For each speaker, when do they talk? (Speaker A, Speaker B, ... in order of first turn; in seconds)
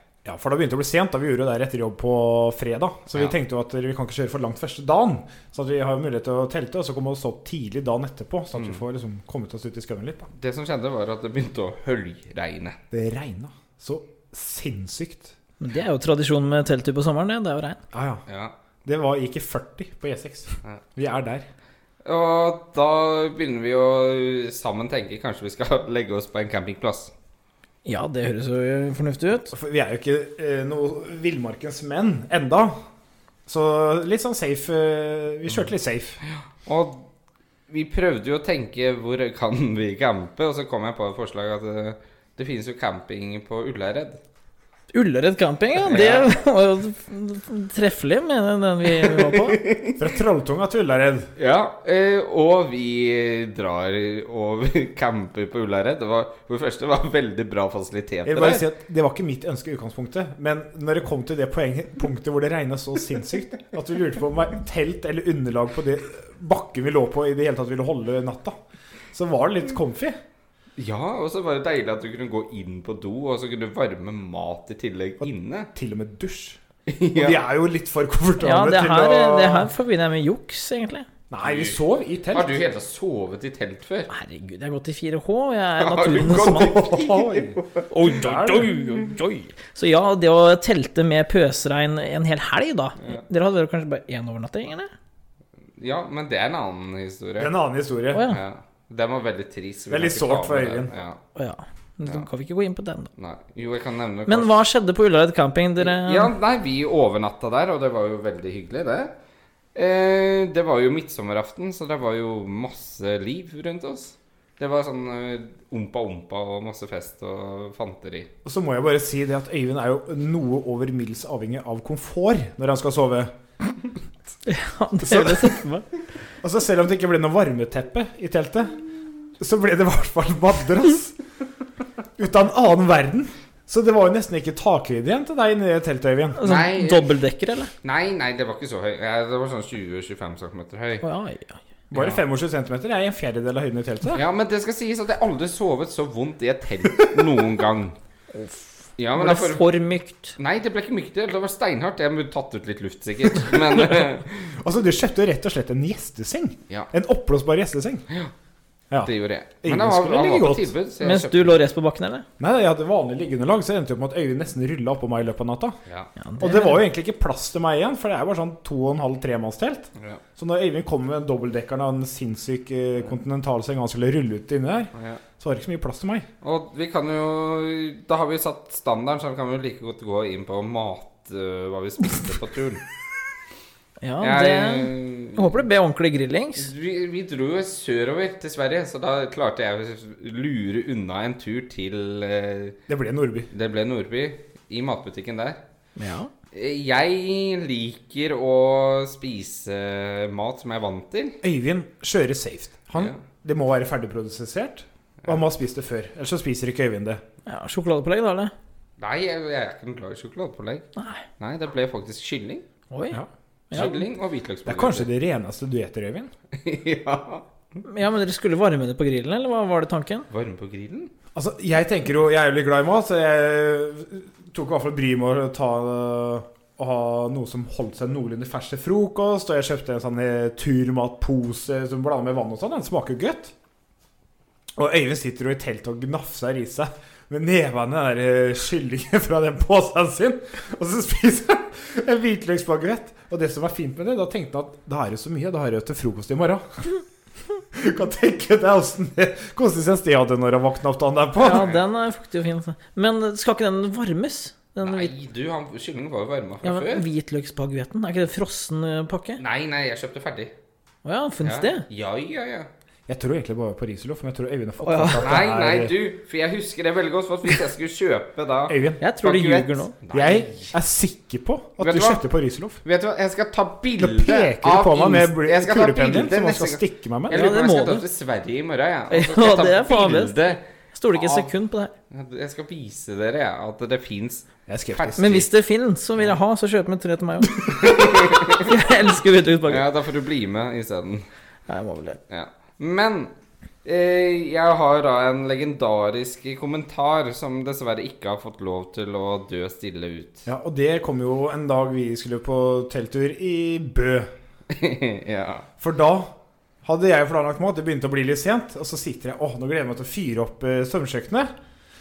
Speaker A: 0.2-10.3, 12.9-15.3, 17.9-18.2, 18.8-21.4, 29.5-32.7, 33.5-36.2, 50.0-51.3, 58.2-68.6, 69.1-70.2, 75.7-76.6, 77.1-79.7, 81.3-82.6, 86.5-88.7, 97.4-98.3, 99.9-100.9, 118.4-123.3, 125.0-125.6, 126.4-128.8, 129.4-131.2, 132.2-136.4, 141.9-144.2, 154.6-158.0, 159.6-160.7, 162.4-165.8, 166.4-176.3, 192.9-193.5, 201.4-207.2, 213.1-214.0, 214.7-216.3, 221.3-233.5, 234.8-246.9, 247.7-251.7, 263.1-265.9, 268.7-269.0, 270.1-272.8, 274.0-277.4, 284.7-285.4, 300.4-304.3, 305.8-306.3, 306.8-311.5
Speaker B: 8.5-8.8, 10.3-12.8, 18.3-18.5, 22.0-27.1, 36.2-37.0, 37.7-44.2, 45.8-46.3, 48.9-50.0, 51.4-58.6, 70.8-75.7, 76.9-77.4, 81.4-81.8, 82.3-84.1, 85.8-87.9, 95.8-97.5, 98.3-101.2, 103.2-104.6, 105.8-109.1, 109.7-118.3, 136.4-137.1, 137.8-141.0, 141.9-142.2, 144.1-148.0, 149.0-149.6, 150.4-154.5, 159.0-161.6, 169.9-170.2, 174.9-175.2, 176.4-182.8, 184.2-185.6, 186.6-192.8, 193.5-195.6, 196.5-201.4, 202.9-203.2, 209.0-210.9, 211.4-212.6, 213.7-215.1, 216.5-217.4, 220.3-221.1, 251.5-251.8, 254.8-257.1, 259.4-260.5, 261.4-262.7, 265.2-270.7, 271.8-272.2, 272.8-280.6, 281.1-281.5, 282.1-285.5, 287.7-288.8, 289.6-291.3, 292.3-293.3, 293.8-300.4, 304.7-305.6
Speaker C: 15.6-17.8, 27.8-29.5, 44.9-49.6, 78.4-81.1, 84.1-86.9, 87.9-94.9, 98.1-98.4, 101.3-103.1, 104.3-106.3, 124.5-125.8, 136.4-137.7, 141.0-141.6, 148.3-150.3, 161.0-162.2, 166.2-166.8, 184.0-186.7, 196.0-196.3, 207.4-208.5, 210.9-211.2, 212.9-213.9, 217.8-220.3, 251.4-255.1, 256.6-259.4, 261.0-261.8, 264.8-265.3, 269.0-269.9, 277.3-278.0, 279.1-280.4, 280.9-281.9, 285.2-287.9, 288.5-289.9, 291.7-292.2